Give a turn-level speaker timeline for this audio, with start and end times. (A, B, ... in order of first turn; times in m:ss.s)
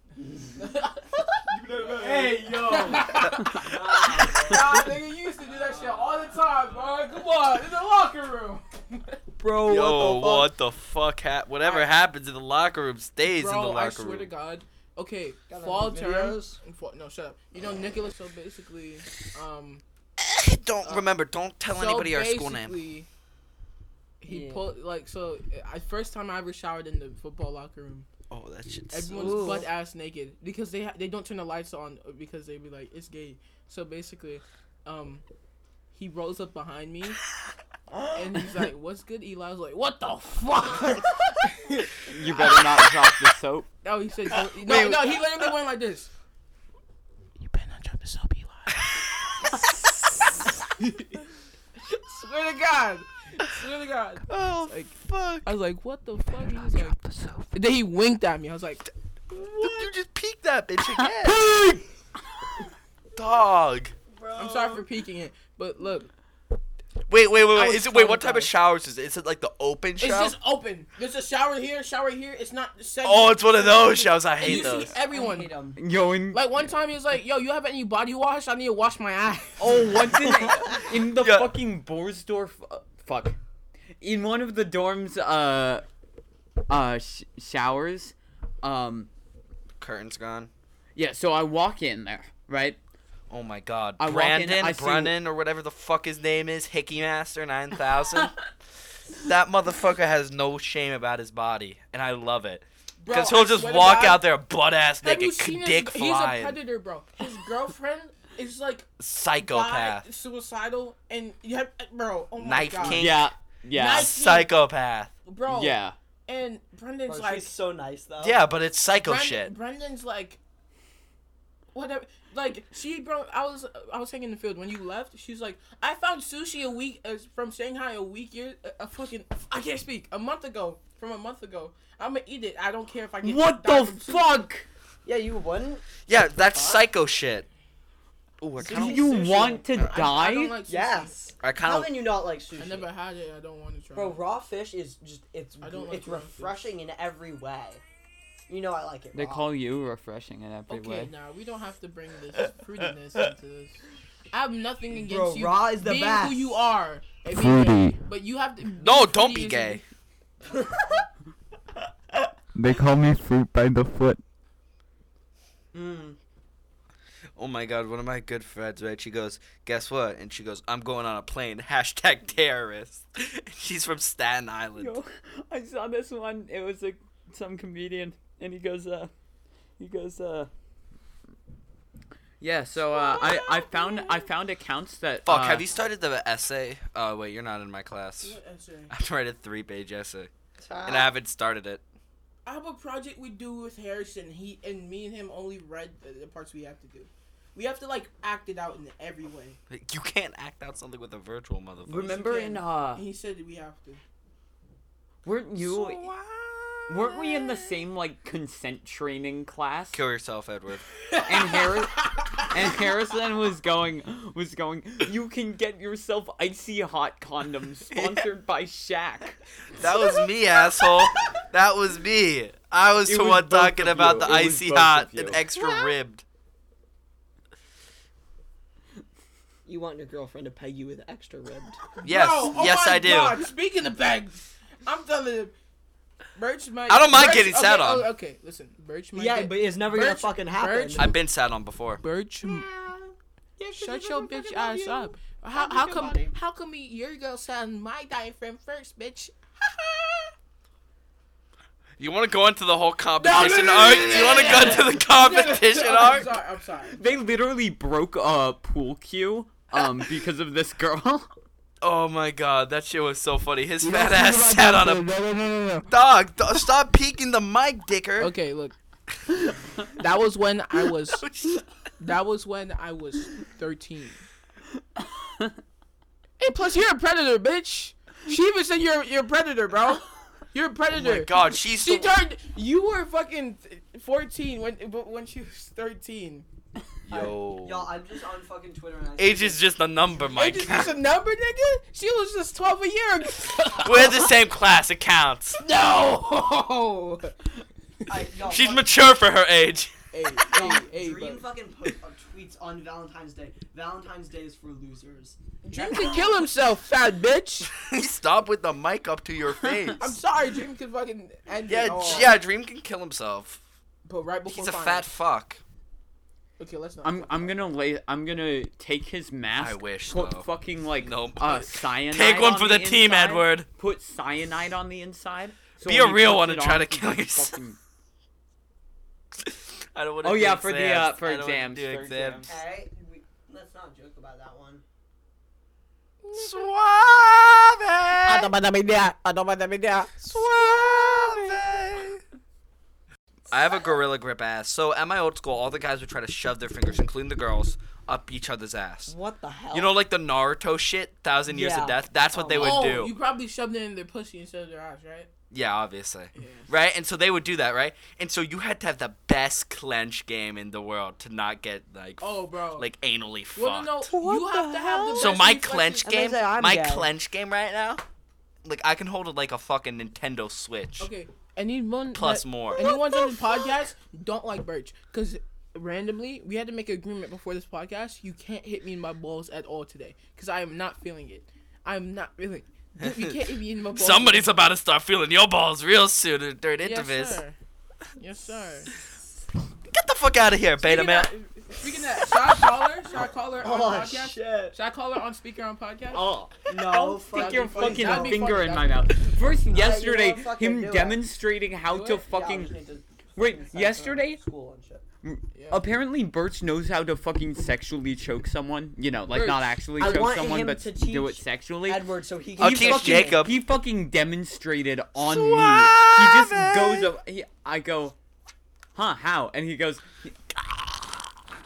0:00.2-0:00.5 A
0:00.6-0:09.2 B
0:01.5-0:06.3 A
0:09.4-0:10.5 A
0:09.6-0:14.3 C
0:11.6-0:11.9 B
0:13.2-0:19.8 B
0:15.5-0:16.6 A
0:20.2-0:22.8 C
0:21.7-0:23.1 B
0:24.2-0:28.1 B
0:24.3-0:24.7 A
0:28.3-0:29.6 C
0:28.9-0:35.2 B
0:29.1-0:29.7 A
0:35.9-0:37.2 B
0:38.1-0:42.8 B
0:42.0-0:43.7 D
0:43.8-0:46.1 B
0:44.6-0:45.2 C
0:47.4-0:48.9 B
0:50.6-0:51.2 B
0:51.8-0:57.0 B
0:54.3-0:55.5 C
0:56.6-0:57.5 D
0:57.5-0:58.9 B
0:59.3-0:59.9 A
0:59.4-1:01.5 C
1:01.2-1:01.8 D
1:03.2-1:03.9 C
1:04.1-1:04.8 A
1:04.4-1:06.1 B
1:07.1-1:10.4 C
1:07.5-1:08.5 B
1:10.0-1:15.6 B
1:13.0-1:15.0 C
1:14.4-1:15.8 A
1:15.8-1:16.7 D
1:16.3-1:19.8 B
1:19.6-1:23.4 D
1:20.3-1:20.6 A
1:21.2-1:21.6 C
1:24.0-1:25.8 D
1:26.7-1:29.1 D
1:29.8-1:30.5 C
1:31.0-1:32.8 D
1:33.3-1:38.5 C
1:34.0-1:35.2 D
1:39.1-1:46.6 C
1:43.0-1:44.3 B
1:45.0-1:53.1 B
1:49.0-1:50.0 C
1:52.4-1:53.3 C
1:52.9-1:54.1 D
1:53.7-1:54.6 B
1:53.9-1:55.1 C
1:55.2-1:57.6 B
1:55.5-1:56.0 D
1:57.1-1:58.5 A
1:58.2-1:59.5 C
1:58.9-2:00.4 B
2:01.7-2:14.4 B
2:13.2-2:14.7 D
2:15.0-2:16.9 A
2:16.1-2:17.5 C
2:18.4-2:20.0 C
2:18.6-2:20.6 D
2:18.6-2:19.7 A
2:18.6-2:21.2 B
2:20.7-2:22.9 A
2:21.4-2:21.9 C
2:22.6-2:24.2 B
2:24.0-2:27.8 A
2:25.6-2:26.6 B
2:28.5-2:29.5 A
2:29.1-2:31.1 D
2:30.7-2:39.8 B
2:34.9-2:36.6 A
2:37.3-2:38.0 D
2:38.8-2:39.8 C
2:40.4-2:41.1 A
2:42.6-2:44.2 D
2:45.7-2:46.2 A
2:47.4-2:55.0 C
2:54.8-2:59.1 D
2:59.8-3:00.5 D
3:02.4-3:05.6 D
3:02.9-3:04.2 B
3:05.3-3:08.4 C
3:08.2-3:08.9 B
3:08.9-3:10.3 C
3:10.6-3:11.1 A
3:10.8-3:11.8 C
3:12.4-3:19.6 B
3:19.7-3:22.4 C
3:21.9-3:23.0 D
3:22.1-3:24.0 B
3:25.2-3:26.1 D
3:25.6-3:27.8 C
3:26.9-3:30.0 D
3:29.9-3:30.9 C
3:31.1-3:32.4 B
3:31.2-3:39.4 D
3:37.9-3:38.3 C
3:39.7-3:46.2 C
3:43.0-3:45.4 D
3:49.7-3:51.8 A
3:52.0-3:55.5 B
3:52.0-3:53.4 C
3:56.4-4:01.2 B
3:56.9-3:58.1 C
3:59.1-4:01.1 A
4:01.0-4:02.0 C
4:02.0-4:02.7 B
4:02.4-4:06.3 A
4:03.8-4:10.3 B
4:12.0-4:16.3 C
4:13.2-4:17.0 B
4:17.0-4:21.3 D
4:21.8-4:25.2 C
4:25.9-4:28.3 C
4:28.2-4:28.8 B
4:29.9-4:31.3 B
4:31.1-4:31.7 C
4:32.0-4:34.2 B
4:35.2-4:35.5 D
4:36.4-4:46.5 B
4:40.9-4:42.1 C
4:47.1-4:47.9 C
4:47.1-4:49.6 A
4:49.2-4:51.0 C
4:50.3-4:54.4 B
4:53.8-4:55.6 C
4:55.6-4:57.4 B
4:58.1-4:58.9 A
4:58.5-4:59.9 C
5:00.1-5:01.4 B
5:00.5-5:06.2 A
5:05.6-5:07.7 B
5:07.7-5:10.2 C
5:10.0-5:12.4 B
5:11.7-5:13.6 C
5:12.0-5:12.3 A
5:14.0-5:15.1 B
5:14.5-5:15.6 C
5:16.6-5:17.6 B
5:17.0-5:27.8 D
5:19.6-5:20.5 C
5:21.0-5:23.7 C
5:25.8-5:27.6 C
5:29.4-5:32.5 C
5:30.2-5:32.6 D
5:32.4-5:34.8 A
5:36.2-5:36.7 B
5:36.3-5:38.5 C
5:38.3-5:40.1 D
5:40.2-5:42.2 C
5:40.4-5:41.4 B
5:40.6-5:41.6 A
5:43.5-5:49.1 C
5:49.1-5:50.0 A
5:49.7-5:53.1 C
5:51.5-5:53.0 A
5:52.5-5:55.3 B
5:55.5-6:04.1 C
5:56.4-5:56.7 B
6:02.2-6:02.9 B
6:03.6-6:06.1 B
6:04.1-6:05.4 A
6:05.1-6:08.0 C
6:06.0-6:07.1 A
6:08.6-6:11.1 C
6:11.0-6:24.5 B
6:12.1-6:12.9 C
6:12.8-6:13.7 A
6:23.0-6:23.4 C
6:23.9-6:27.4 C
6:26.8-6:27.6 B
6:28.2-6:28.9 B
6:29.9-6:31.3 C
6:30.8-6:36.3 B
6:33.6-6:34.8 A
6:36.1-6:38.7 A
6:36.7-6:42.7 D
6:37.3-6:39.1 B
6:39.7-6:41.2 A
6:41.9-6:45.0 A
6:43.4-6:44.4 D
6:45.2-6:52.1 D
6:45.5-6:45.8 B
6:49.3-6:49.6 B
6:50.0-6:53.5 A
6:52.6-6:53.6 C
6:52.6-6:58.2 D
6:55.2-6:57.1 C
6:59.0-7:01.3 D